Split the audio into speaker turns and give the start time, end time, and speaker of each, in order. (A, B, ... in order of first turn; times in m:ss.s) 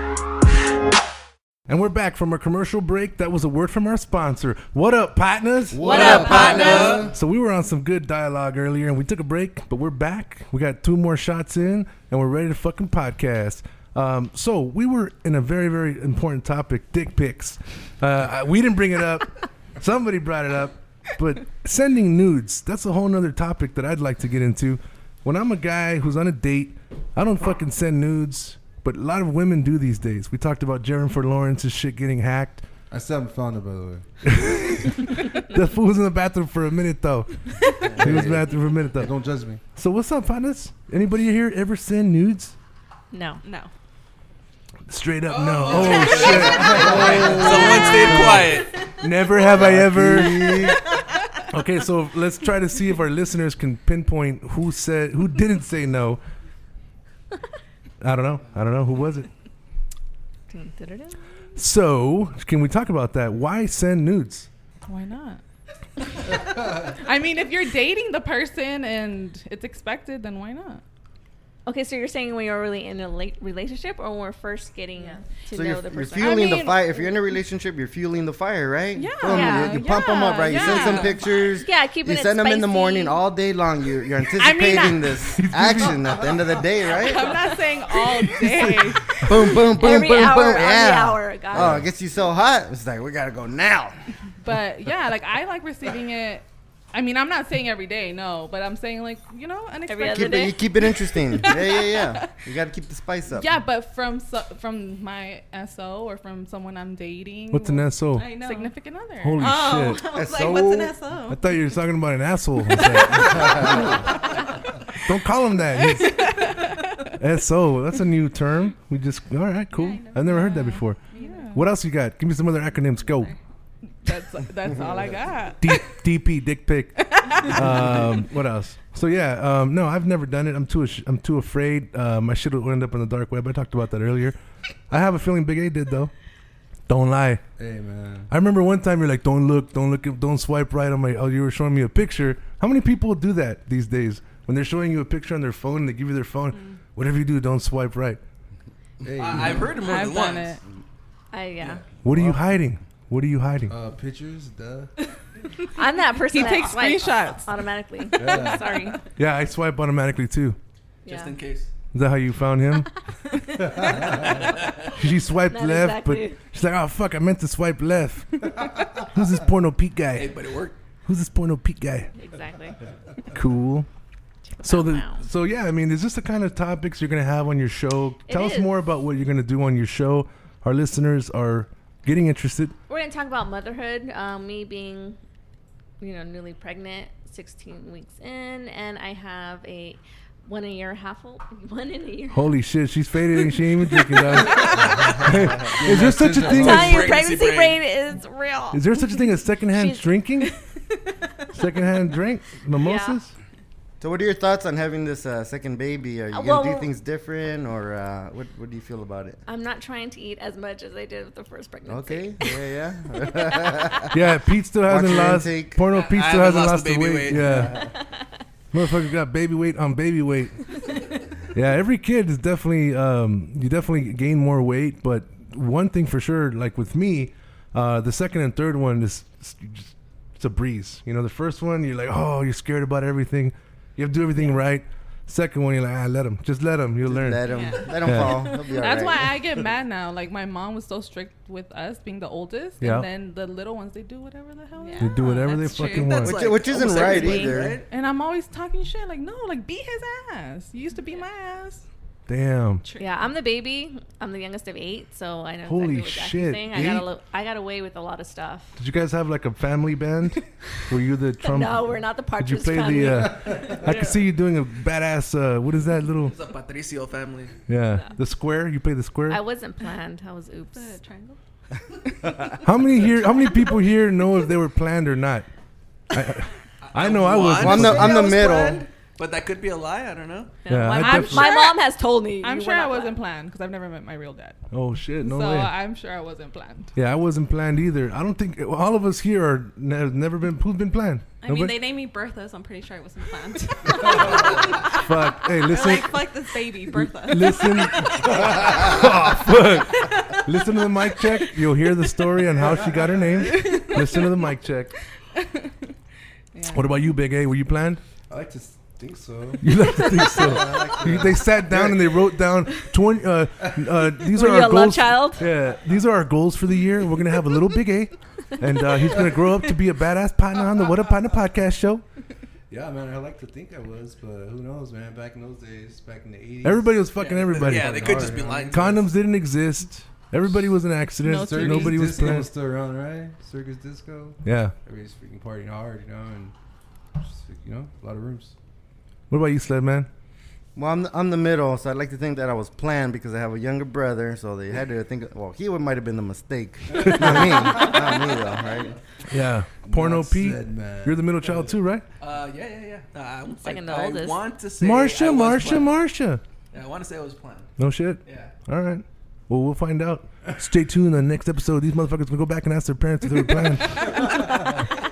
0:01.7-0:06.1 A
0:05.7-0:07.1 B
0:05.8-0:07.0 C
0:05.8-0:07.1 D
0:05.9-0:07.0 E
0:06.0-0:06.9 F
0:07.1-0:32.7 A
0:32.9-0:34.0 B
0:34.2-0:39.1 A
0:37.8-0:39.6 B
0:39.7-0:42.6 A
0:43.1-0:43.4 C
0:43.4-0:43.7 F
0:44.9-0:50.5 A
0:45.3-0:48.7 E
0:45.7-0:46.8 F
0:46.5-0:48.4 B
0:49.5-0:50.8 B
0:51.5-0:56.2 A
0:58.0-0:59.3 A
1:00.5-1:01.2 C
1:01.6-1:04.5 A
1:04.9-1:05.4 G
1:06.8-1:10.8 G
1:11.6-1:16.6 C
1:15.0-1:15.2 F
1:15.5-1:27.5 D
1:16.2-1:17.1 G
1:18.9-1:21.2 G
1:19.2-1:19.9 C
1:20.5-1:23.2 C
1:24.4-1:25.3 G
1:25.3-1:26.2 A
1:26.8-1:29.2 G
1:29.2-1:34.0 D
1:29.7-1:31.8 C
1:31.5-1:31.8 A
1:31.6-1:31.8 B
1:34.4-1:42.3 G
1:39.9-1:40.6 C
1:40.1-1:43.5 D
1:43.3-1:49.4 G
1:47.5-1:48.3 A
1:48.1-1:48.7 F
1:49.2-1:50.0 A
1:49.4-1:51.4 F
1:50.1-1:50.9 D
1:51.3-1:54.1 A
1:52.8-1:54.4 F
1:53.4-1:53.8 B
1:55.0-1:56.5 A
1:56.4-1:56.7 G
1:57.1-2:01.0 A
1:59.7-2:01.6 F
2:00.2-2:01.6 G
2:01.5-2:03.3 A
2:03.0-2:03.4 F
2:04.0-2:05.9 G
2:05.6-2:14.4 A
2:07.0-2:07.7 G
2:14.9-2:16.1 A
2:16.9-2:17.4 A
2:17.6-2:18.3 B
2:18.3-2:28.2 A
2:26.5-2:26.8 F
2:29.0-2:29.9 B
2:29.2-2:30.6 E
2:29.7-2:30.6 G
2:31.3-2:31.8 C
2:31.6-2:32.5 B
2:32.0-2:33.7 A
2:33.7-2:34.9 B
2:35.7-2:39.0 C
2:36.3-2:39.0 G
2:38.1-2:38.8 B
2:39.2-2:40.6 A
2:41.0-2:41.4 C
2:41.0-2:41.7 E
2:41.9-2:42.9 A
2:43.3-2:44.4 C
2:44.0-2:44.3 B
2:44.4-2:44.7 E
2:44.9-2:50.4 A
2:45.5-2:46.4 C
2:50.1-2:50.8 E
2:51.0-2:52.1 A
2:52.1-2:52.8 C
2:53.3-2:53.9 A
2:54.6-2:55.2 C
2:54.6-3:02.8 A
2:58.3-2:58.7 C
3:02.9-3:05.2 C
3:06.0-3:12.5 C
3:12.3-3:17.1 A
3:14.0-3:15.2 C
3:15.0-3:17.2 B
3:16.4-3:20.6 C
3:16.4-3:17.8 E
3:18.7-3:20.5 A
3:21.5-3:23.3 A
3:22.8-3:23.2 C
3:24.0-3:29.4 D
3:26.3-3:26.9 C
3:29.4-3:32.6 C
3:31.9-3:34.2 D
3:34.1-3:37.9 A
3:34.8-3:35.8 D
3:35.9-3:37.7 E
3:37.3-3:37.9 B
3:37.8-3:38.3 C
3:38.7-3:40.9 A
3:41.5-3:57.4 A
3:57.1-3:59.4 D
3:57.4-3:58.1 F
3:58.0-3:58.5 A
3:58.6-4:05.2 G
4:02.8-4:03.1 A
4:04.8-4:06.1 F
4:05.0-4:06.4 A
4:05.4-4:06.2 C
4:06.0-4:07.8 E
4:06.2-4:07.8 D
4:06.8-4:07.6 C
4:07.9-4:11.8 G
4:12.3-4:12.8 A
4:12.8-4:13.2 F
4:13.0-4:18.8 C
4:15.6-4:17.1 A
4:18.8-4:26.4 A
4:21.4-4:24.2 C
4:26.2-4:27.5 E
4:27.7-4:29.4 A
4:29.3-4:31.0 C
4:30.7-4:31.4 F
4:32.6-4:35.5 A
4:36.1-4:38.2 A
4:36.8-4:40.6 E
4:37.5-4:38.9 D
4:40.6-4:43.2 C
4:40.7-4:41.5 A
4:41.0-4:41.8 G
4:42.4-4:44.6 G
4:44.7-4:45.7 A
4:45.2-4:46.9 G
4:46.9-4:51.8 A
4:51.4-4:58.2 F
4:54.9-4:56.2 A
4:56.9-5:04.9 A
4:58.3-4:58.9 B
5:05.4-5:05.7 G
5:06.5-5:06.9 G
5:06.7-5:08.0 A
5:08.3-5:12.1 B
5:09.6-5:22.0 A
5:13.6-5:13.9 B
5:14.3-5:15.4 C
5:22.7-5:27.0 B
5:26.6-5:32.5 A
5:27.2-5:29.1 E
5:27.5-5:29.1 B
5:31.2-5:32.0 G
5:31.4-5:36.5 B
5:34.4-5:34.8 A
5:37.2-5:38.5 B
5:39.3-5:40.1 A
5:40.8-5:49.0 D
5:47.0-5:47.9 A
5:48.6-5:49.0 E
5:49.3-5:52.0 A
5:49.8-5:51.8 B
5:52.2-5:56.0 E
5:53.6-5:54.4 C
5:54.8-5:56.4 A
5:56.7-5:57.7 E
5:57.8-6:04.5 A
5:58.2-5:58.5 E